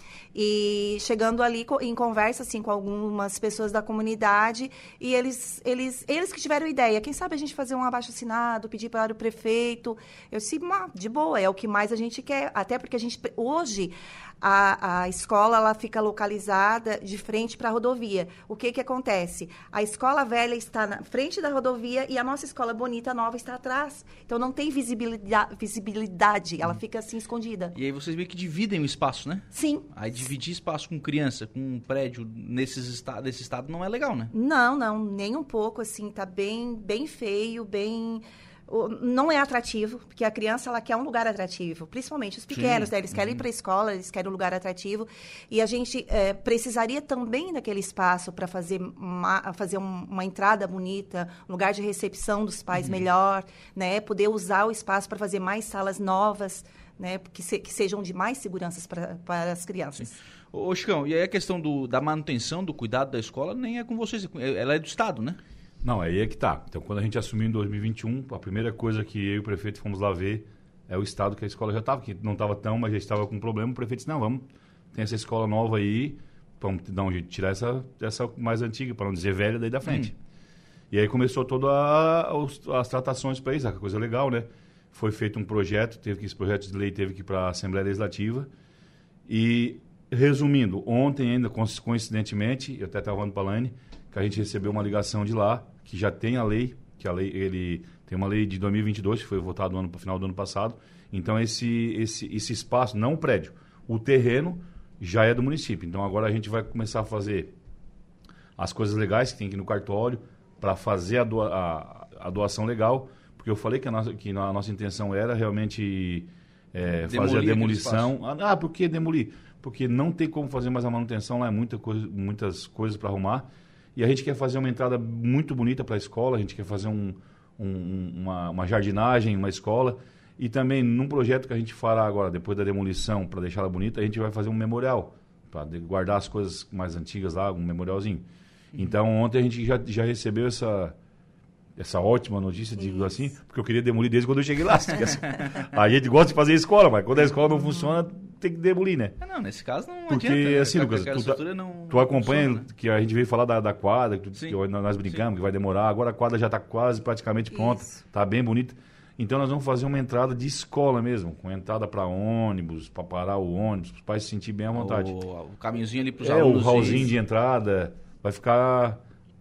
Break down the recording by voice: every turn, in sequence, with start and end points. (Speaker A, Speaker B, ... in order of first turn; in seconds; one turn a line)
Speaker A: 0.3-27.8
Speaker B: 27.7-34.3
Speaker A: 29.5-29.9
Speaker A: 34.3-60.1
Speaker B: 42.5-43.4
Speaker B: 52.7-53.0
Speaker B: 60.0-65.4
Speaker C: 65.8-80.1
Speaker B: 79.8-80.1
Speaker C: 80.9-88.5
Speaker C: 89.3-107.5
Speaker C: 108.6-140.9
Speaker B: 117.0-118.1
Speaker C: 141.8-149.2
Speaker A: 142.8-143.2
Speaker B: 149.2-152.7
Speaker C: 150.1-165.1
Speaker A: 157.5-158.0
Speaker B: 164.7-167.1
Speaker C: 166.2-169.0